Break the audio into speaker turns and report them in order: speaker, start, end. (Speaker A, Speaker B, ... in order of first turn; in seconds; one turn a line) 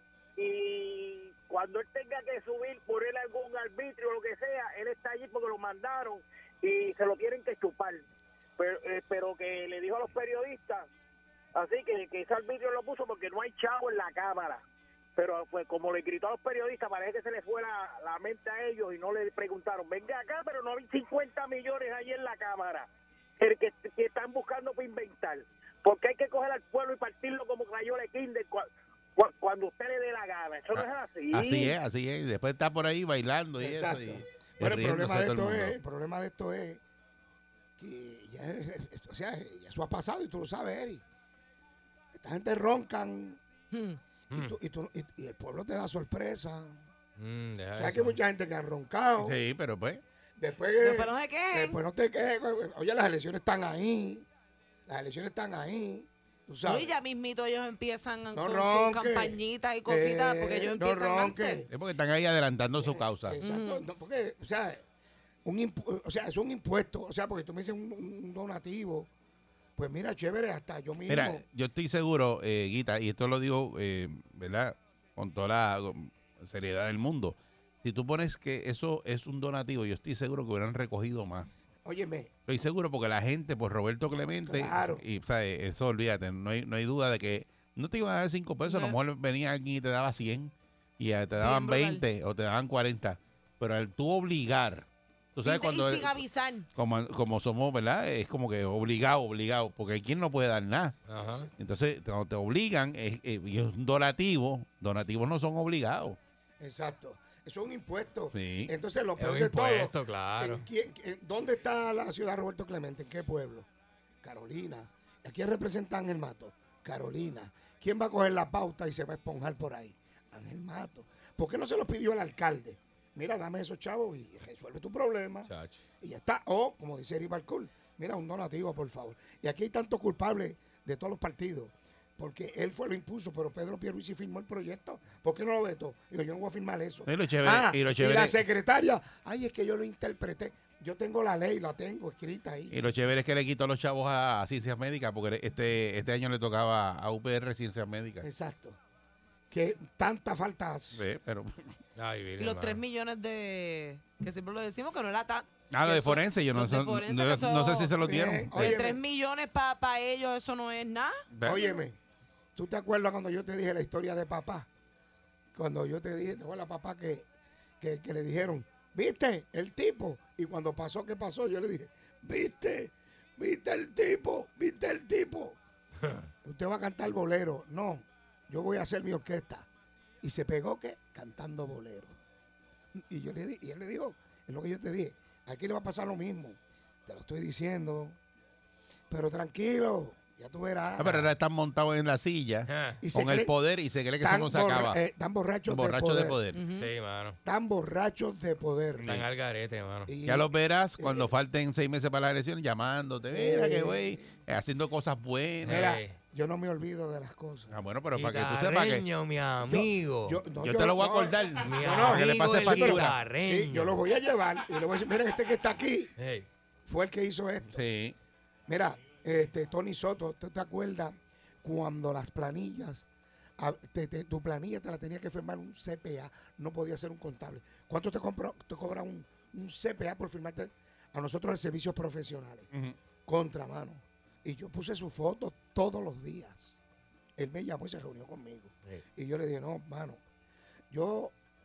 Speaker A: 0.4-8.0
Speaker A: 8.6-10.9
Speaker A: 11.5-14.6
Speaker A: 15.2-31.5
Speaker B: 30.7-35.8
Speaker C: 33.6-36.8
Speaker C: 37.8-41.0
Speaker C: 42.1-43.4
Speaker D: 43.7-44.0
Speaker C: 44.3-46.8
Speaker E: 47.2-48.1
Speaker C: 47.8-49.4
Speaker B: 49.2-50.0
Speaker C: 50.4-54.2
Speaker D: 50.8-51.8
Speaker C: 54.9-57.0
Speaker D: 56.6-61.6
Speaker C: 58.3-61.7
Speaker B: 61.7-63.4
Speaker C: 62.8-64.8
Speaker D: 63.4-63.9
Speaker C: 65.4-69.1
Speaker C: 69.8-71.4
Speaker B: 71.1-81.5
Speaker C: 81.8-82.3
Speaker B: 82.5-96.2
Speaker C: 84.4-85.0
Speaker D: 88.6-89.0
Speaker D: 91.4-92.0
Speaker D: 95.4-96.7
Speaker B: 96.7-101.0
Speaker E: 101.0-101.5
Speaker C: 101.2-101.5
Speaker B: 101.6-106.2
Speaker C: 106.6-113.7
Speaker B: 108.3-108.7
Speaker E: 109.2-110.6
Speaker C: 114.2-142.8
Speaker E: 125.5-125.8
Speaker B: 137.1-138.4
Speaker B: 142.7-148.3
Speaker C: 148.2-148.8
Speaker C: 149.5-151.0
Speaker B: 150.9-151.7
Speaker E: 151.9-152.8
Speaker D: 152.4-157.9
Speaker B: 155.7-158.8
Speaker C: 158.0-159.0
Speaker D: 158.6-161.7
Speaker B: 161.3-161.6
Speaker C: 161.4-162.0
Speaker C: 162.6-164.7
Speaker C: 165.5-167.2
Speaker C: 167.8-175.6
Speaker C: 176.4-179.7
Speaker C: 180.2-182.1
Speaker C: 182.9-188.2
Speaker C: 189.1-191.1
Speaker B: 191.0-195.0
Speaker E: 191.0-191.3
Speaker E: 192.7-193.0
Speaker C: 193.0-193.5
Speaker C: 194.2-196.4
Speaker B: 195.7-196.6
Speaker D: 196.5-196.9
Speaker E: 196.8-197.4
Speaker C: 197.4-199.2
Speaker B: 199.0-199.2
Speaker E: 199.0-200.1
Speaker C: 200.1-201.3
Speaker B: 200.2-205.9
Speaker C: 203.2-204.3
Speaker E: 205.6-206.2
Speaker C: 205.6-207.8
Speaker B: 207.7-209.1
Speaker E: 208.1-210.4
Speaker C: 209.7-216.1
Speaker B: 210.6-213.2
Speaker E: 211.6-214.0
Speaker E: 216.2-216.5
Speaker C: 216.9-217.8
Speaker B: 217.7-218.2
Speaker C: 218.7-223.0
Speaker C: 223.6-232.7
Speaker C: 233.2-236.8
Speaker C: 237.4-240.2
Speaker C: 240.9-241.3